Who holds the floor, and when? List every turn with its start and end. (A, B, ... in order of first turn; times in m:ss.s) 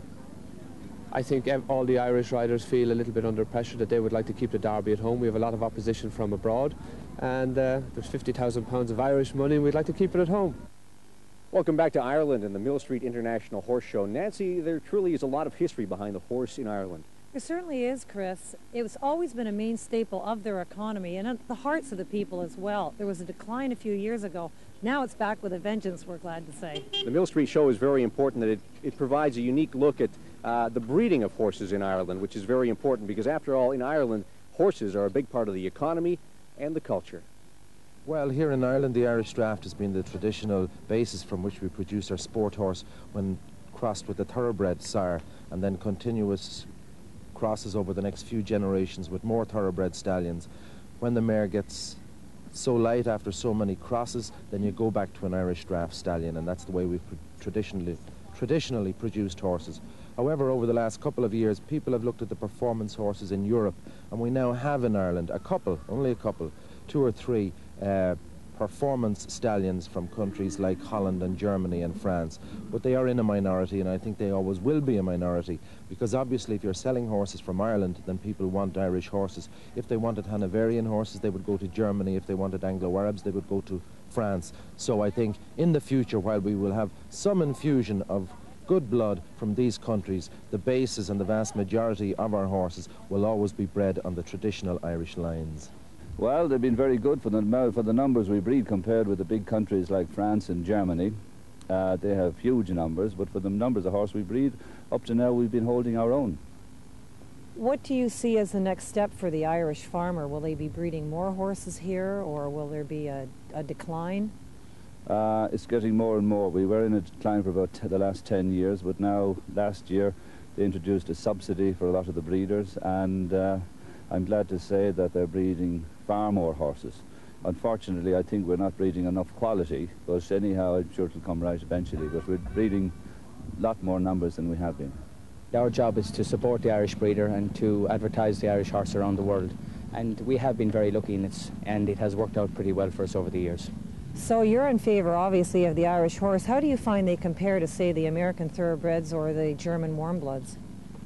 0:01.1-0:10.6 A
0:11.5-0:17.0 B
0:17.3-0:26.8 C
0:27.0-0:37.2 B
0:38.0-0:46.7 D
0:47.3-0:50.5 D
0:51.0-0:52.0 D
0:52.5-1:35.7 D
1:36.2-1:41.2 E
1:41.7-1:46.4 E
1:47.5-1:54.3 C
1:55.0-2:12.9 E
2:13.6-2:14.9 E
2:15.5-2:23.7 F
2:24.1-2:30.6 C